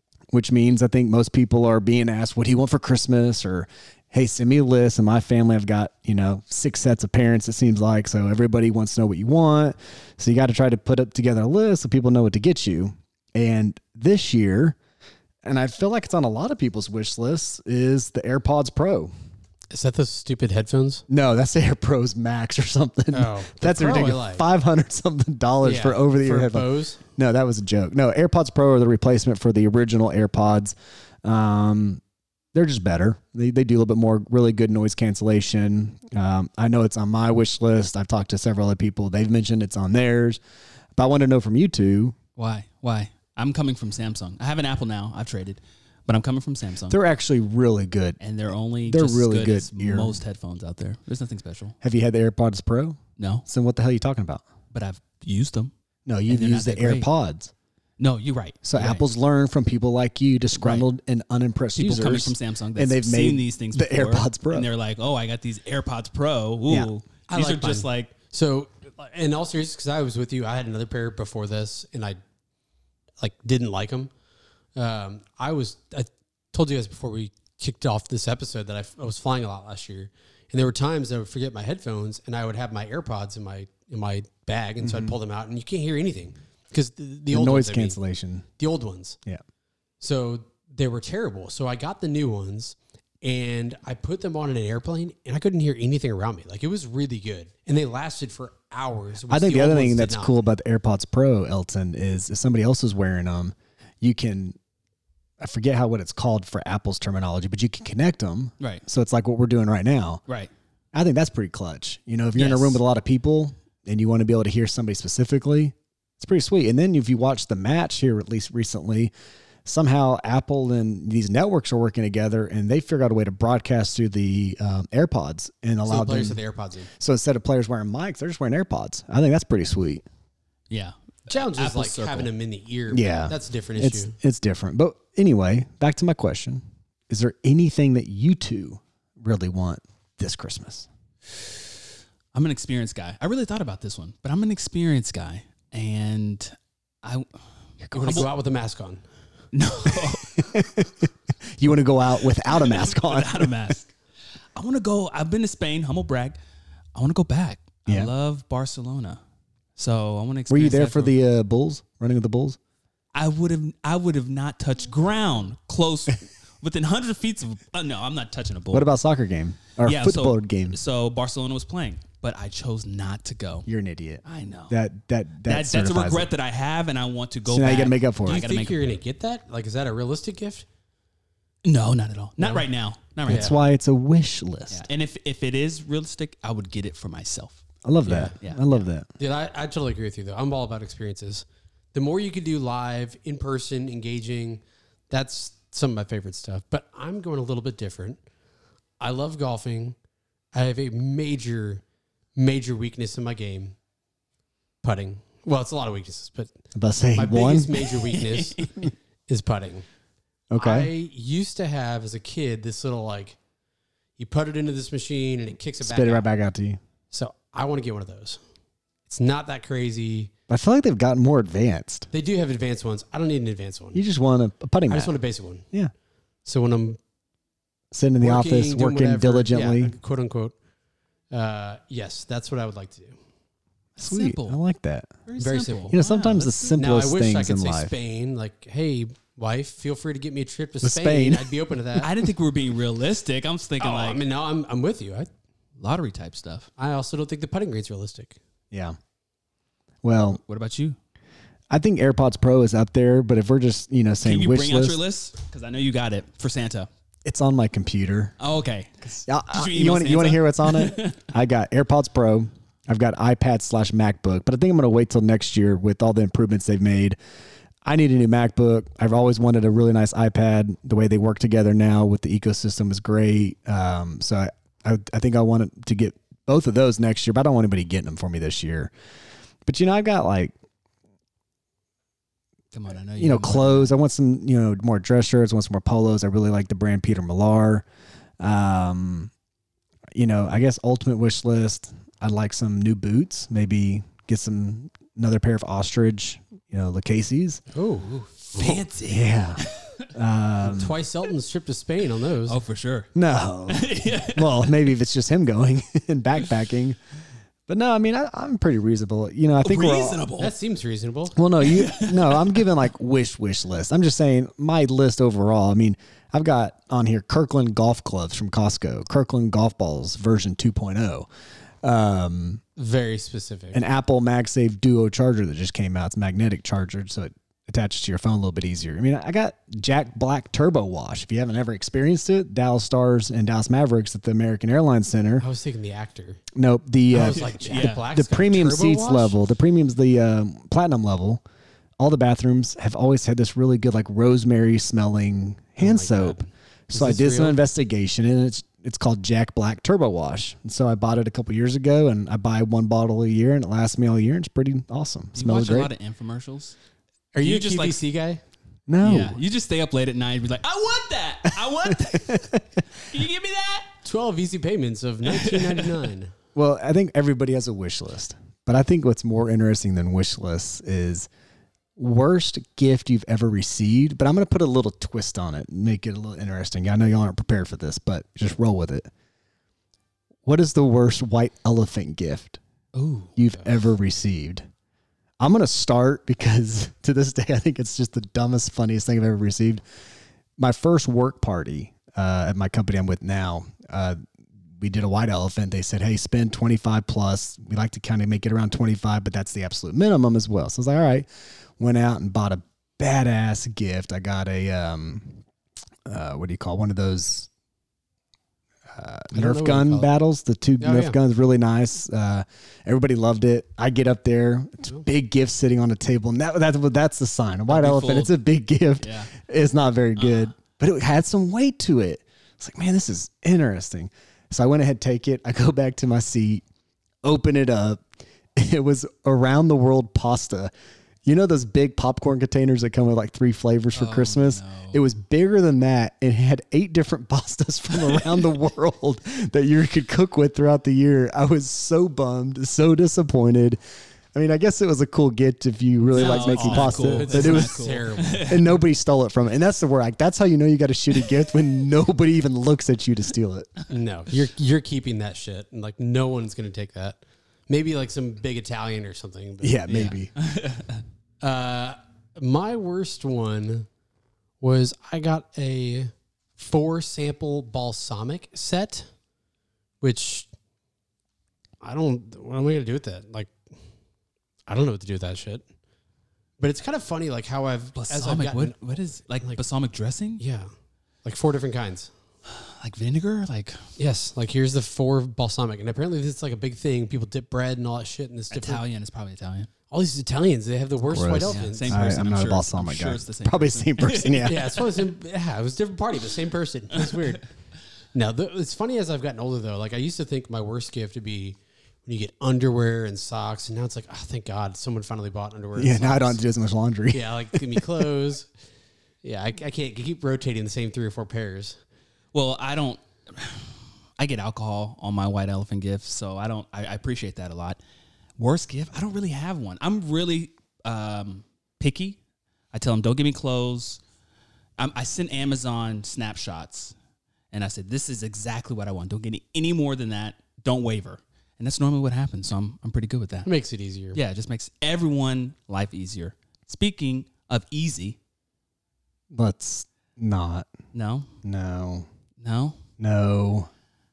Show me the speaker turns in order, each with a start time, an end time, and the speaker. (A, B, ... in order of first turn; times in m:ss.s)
0:00.3-0:14.8 A
0:15.4-0:19.1 A
0:19.7-0:21.0 B
0:21.1-0:32.0 A
0:23.1-0:24.4 B
0:25.6-0:27.0 B
0:32.5-0:40.4 A
0:41.0-0:42.2 A
0:42.4-0:47.0 C
0:46.9-0:48.2 A
0:48.2-0:51.7 C
0:48.8-0:50.2 A
0:51.8-0:54.4 A
0:53.2-0:53.4 C
0:54.7-0:55.7 C
0:56.0-0:57.5 A
0:56.3-0:57.1 C
0:58.0-0:59.0 C
0:58.6-1:04.7 A
1:00.5-1:00.9 C
1:01.8-1:08.1 C
1:07.3-1:12.2 B
1:13.2-1:14.1 B
1:14.8-1:28.0 B
1:24.8-1:25.1 A
1:27.3-1:28.4 A
1:28.6-1:29.2 B
1:30.0-1:40.3 B
1:39.3-1:44.6 A
1:45.4-1:50.2 A
1:50.9-1:59.1 A
1:52.4-1:52.8 C
1:59.6-2:06.4 A
2:05.8-2:06.9 B
2:07.0-2:10.0 A
2:10.7-2:12.3 C
2:11.3-2:14.2 B
2:12.9-2:20.9 A
2:22.3-2:27.3 C
2:27.8-2:28.3 C
2:27.9-2:29.0 B
2:29.5-2:30.6 C
2:30.0-2:33.7 A
2:32.4-2:33.9 C
2:34.5-2:36.4 C
2:36.9-2:39.2 C
2:39.8-2:41.2 C
2:40.5-2:42.6 A
2:43.1-2:48.9 C
2:48.7-2:50.8 A
2:49.8-2:53.7 C
2:53.7-2:56.3 A
2:54.2-2:54.8 C
2:55.4-2:59.0 C
2:57.4-2:58.4 A
2:58.2-3:00.6 B
3:01.6-3:03.5 C
3:02.4-3:02.7 B
3:03.2-3:04.8 A
3:03.3-3:03.5 B
3:04.7-3:07.6 C
3:07.8-3:09.1 A
3:08.0-3:08.4 B
3:08.4-3:08.8 C
3:09.2-3:18.2 B
3:19.0-3:20.0 B
3:20.5-3:21.8 B
3:22.4-3:23.8 B
3:24.8-3:26.5 B
3:26.7-3:27.8 A
3:27.1-3:29.8 B
3:28.2-3:28.7 C
3:30.5-3:30.9 A
3:30.6-3:33.4 B
3:34.2-3:36.3 B
3:35.8-3:36.8 A
3:37.1-3:38.4 B
3:39.1-3:40.3 B
3:40.5-3:42.1 A
3:42.1-3:44.0 B
3:43.9-3:45.1 A
3:44.9-3:45.7 B
3:46.4-3:47.0 B
3:47.9-3:49.9 A
3:48.2-3:50.5 B
3:51.3-3:53.2 B
3:54.0-3:54.6 C
3:54.0-3:55.1 A
3:55.3-3:56.8 C
3:55.4-3:55.9 B
3:55.9-3:57.9 A
3:56.8-4:02.1 B
4:00.8-4:01.5 A
4:02.0-4:04.2 C
4:03.8-4:05.3 B
4:05.8-4:06.7 C
4:06.8-4:08.4 B
4:08.7-4:09.0 A
4:10.0-4:10.4 A
4:10.4-4:11.0 C
4:11.7-4:15.0 A
4:14.2-4:16.9 C
4:17.2-4:18.3 A
4:18.4-4:21.3 C
4:19.2-4:27.2 A
4:27.8-4:38.9 A
4:39.6-4:40.5 A
4:42.7-4:44.0 C
4:43.2-4:47.8 A
4:48.4-4:49.3 A
4:50.1-4:57.6 A
4:57.7-4:58.8 B
4:58.1-5:00.1 C
4:59.1-5:00.9 A
5:00.6-5:02.6 B
5:02.4-5:03.1 C
5:03.1-5:07.0 A
5:03.7-5:04.8 C
5:07.7-5:10.2 A
5:09.6-5:10.5 C
5:10.4-5:11.4 B
5:11.3-5:21.3 A
5:11.7-5:12.5 C
5:21.8-5:22.6 A
5:22.8-5:23.8 B
5:23.7-5:35.4 A
5:35.4-5:36.4 B
5:36.5-5:37.5 A
5:37.1-5:39.4 B
5:37.4-5:38.1 C
5:38.0-5:41.4 A
5:42.0-5:55.9 A
5:45.8-5:46.5 C
5:46.9-5:47.6 B
5:55.3-5:56.7 C
5:57.3-5:58.4 B
5:57.4-5:58.0 C
5:58.9-5:59.4 A
5:59.0-6:03.9 C
6:01.5-6:02.8 A
6:04.0-6:06.3 B
6:05.2-6:05.9 C
6:06.5-6:11.3 A
6:12.0-6:19.1 A
6:20.4-6:22.6 A
6:22.9-6:23.3 C
6:23.4-6:24.6 A
6:25.4-6:29.8 A
6:30.6-6:34.2 A
6:34.8-6:45.4 A
6:46.0-6:47.5 A
6:48.9-7:06.6 A
6:49.3-6:50.1 B
6:50.8-6:51.2 B
6:57.7-6:58.3 C
6:59.0-6:59.3 C
7:00.2-7:00.5 C
7:07.2-7:08.0 A
7:08.5-7:10.7 A
7:11.2-7:23.8 A
7:13.9-7:15.0 C
7:24.3-7:27.8 A
7:26.1-7:28.6 B
7:26.1-7:28.7 C
7:28.4-7:33.7 A
7:33.9-7:39.8 B
7:39.6-7:40.3 A
7:39.9-7:41.0 C
7:41.4-7:43.9 B
7:44.6-7:49.1 B
7:50.0-7:50.5 B
7:51.8-7:53.5 B
7:54.7-7:55.6 B
7:56.6-7:58.8 B
7:57.9-8:00.4 C
8:00.4-8:00.7 B
8:01.2-8:02.1 B
8:02.5-8:03.9 C
8:04.0-8:08.8 B
8:08.5-8:09.7 C
8:09.9-8:12.1 B
8:11.1-8:14.8 A
8:11.5-8:14.8 C
8:14.4-8:17.4 B
8:18.1-8:26.4 B
8:25.8-8:27.8 A
8:27.1-8:28.5 B
8:29.2-8:31.8 B
8:32.3-8:37.8 C
8:38.4-8:42.2 C
8:42.7-8:44.0 C
8:44.8-8:46.9 C
8:47.5-8:53.5 C
8:53.4-8:54.2 B
8:54.1-8:58.2 C
8:59.3-9:00.7 A
9:00.9-9:01.3 C
9:01.4-9:02.1 A
9:02.4-9:02.8 C
9:03.0-9:03.7 A